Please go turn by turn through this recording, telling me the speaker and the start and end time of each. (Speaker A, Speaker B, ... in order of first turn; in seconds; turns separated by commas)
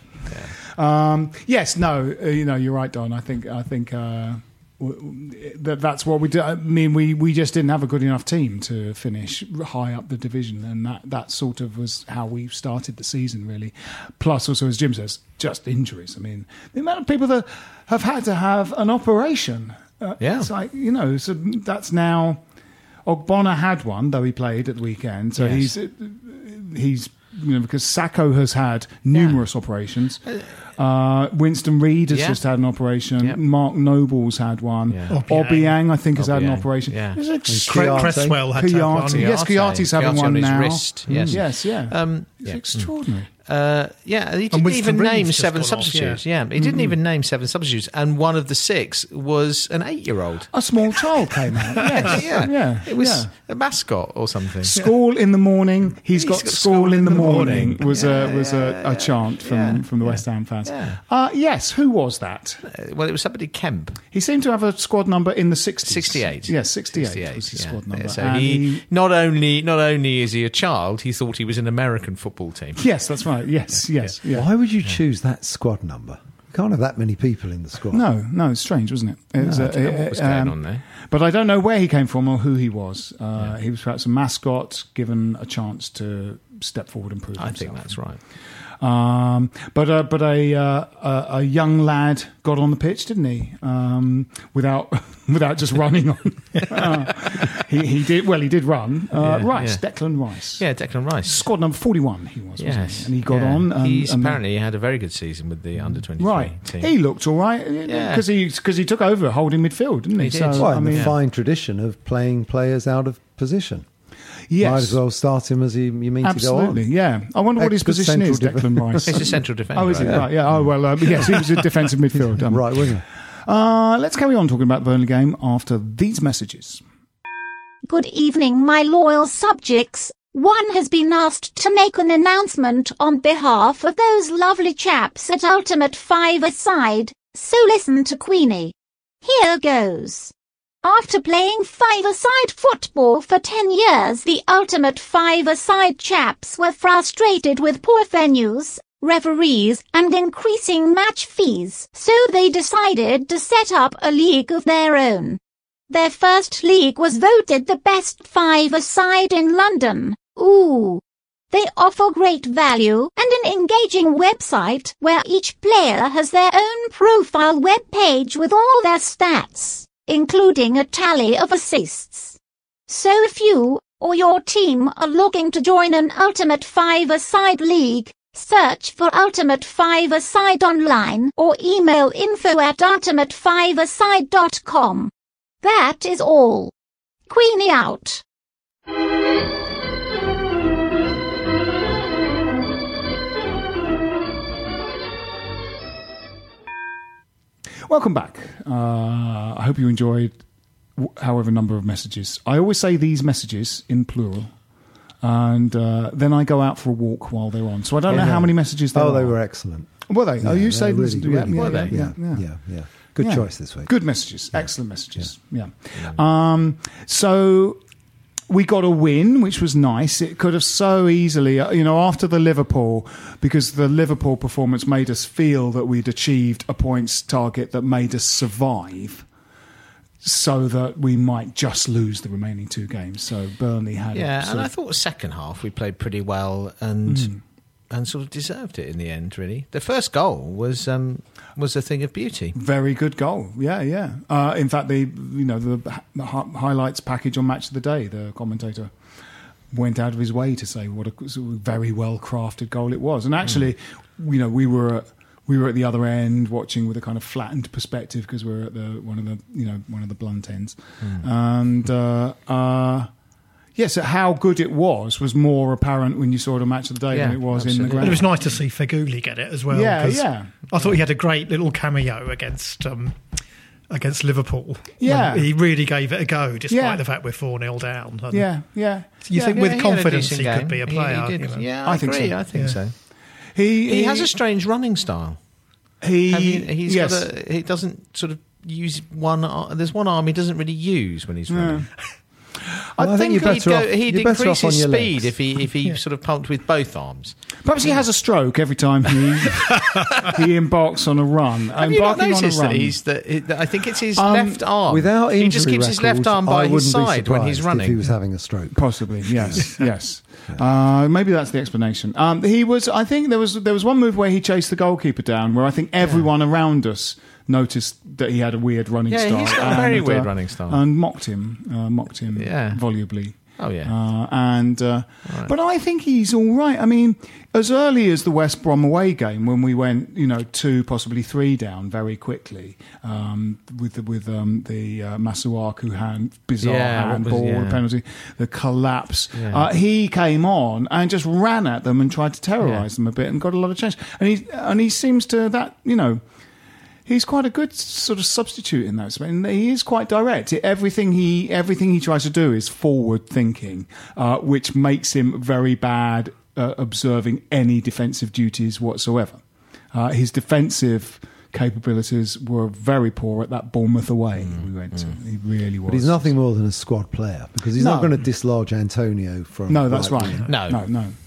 Speaker A: 0.3-0.5, Speaker B: 0.8-22.4, Speaker A: 20.2-20.5, Speaker B: 23.1-30.2, Speaker A: 25.4-25.7, Speaker A: 29.1-29.4, Speaker B: 30.8-43.3, Speaker A: 32.1-32.4, Speaker A: 34.9-35.2, Speaker C: 35.1-35.8, Speaker A: 36.1-37.2, Speaker D: 37.5-38.5, Speaker C: 37.6-39.3, Speaker A: 39.0-50.5, Speaker D: 41.1-41.4, Speaker C: 44.5-46.2, Speaker B: 46.5-46.9, Speaker B: 50.5-53.3, Speaker C: 51.8-52.2, Speaker A: 52.0-54.8, Speaker B: 54.7-62.6, Speaker A: 56.1-61.0, Speaker C: 57.0-57.7, Speaker A: 62.6-64.0, Speaker B: 64.1-68.8, Speaker A: 65.9-72.8, Speaker B: 72.8-74.5, Speaker A: 73.8-74.1, Speaker D: 74.3-78.0, Speaker B: 77.9-88.0, Speaker D: 79.4-79.8, Speaker A: 79.6-80.8, Speaker A: 87.4-88.2, Speaker B: 88.8-100.6, Speaker A: 99.2-99.8, Speaker A: 100.6-101.5, Speaker B: 101.2-104.4, Speaker A: 102.6-106.9, Speaker B: 106.2-111.1, Speaker A: 107.9-108.2, Speaker A: 110.2-111.2, Speaker D: 110.5-113.8, Speaker B: 114.5-115.0, Speaker D: 114.6-116.9, Speaker B: 116.2-122.8, Speaker D: 117.6-119.4, Speaker A: 119.1-120.3, Speaker D: 120.0-120.3, Speaker D: 122.4-123.0, Speaker B: 123.5-126.8, Speaker E: 127.8-185.1, Speaker E: 185.6-186.7, Speaker E: 187.3-188.2, Speaker B: 197.9-200.3, Speaker B: 201.0-204.5, Speaker B: 205.2-209.3, Speaker D: 208.1-213.9, Speaker B: 210.0-212.4, Speaker A: 211.5-212.1, Speaker B: 213.2-217.8, Speaker B: 218.5-229.2, Speaker B: 230.2-234.7, Speaker A: 234.1-237.3, Speaker B: 237.1-237.4, Speaker A: 237.9-242.6, Speaker B: 242.6-248.9, Speaker B: 249.7-263.1, Speaker B: 263.8-268.3, Speaker A: 267.1-268.3, Speaker C: 267.9-273.2, Speaker B: 269.7-270.6, Speaker C: 273.9-278.5, Speaker B: 275.0-275.5, Speaker B: 276.7-277.0, Speaker B: 278.3-279.6, Speaker C: 279.2-281.8, Speaker A: 279.3-282.9, Speaker B: 281.9-282.4, Speaker B: 283.5-284.3, Speaker A: 283.9-285.4, Speaker B: 286.0-287.2, Speaker A: 286.3-291.9, Speaker B: 291.5-291.9, Speaker B: 292.9-293.7, Speaker D: 293.0-295.4, Speaker A: 293.3-297.3, Speaker B: 297.6-302.9, Speaker A: 301.8-308.0, Speaker B: 304.1-304.6, Speaker D: 304.9-309.6, Speaker B: 308.7-346.2, Speaker A: 316.0-316.3, Speaker A: 319.1-320.8, Speaker A: 322.3-322.8, Speaker A: 323.6-323.9, Speaker A: 325.3-325.5, Speaker A: 336.6-337.8, Speaker A: 339.3-339.7, Speaker B: 347.1-359.4, Speaker B: 359.9-366.3, Speaker A: 364.4-365.1, Speaker D: 365.9-370.5, Speaker B: 367.8-368.2, Speaker B: 369.7-371.1, Speaker A: 370.5-370.9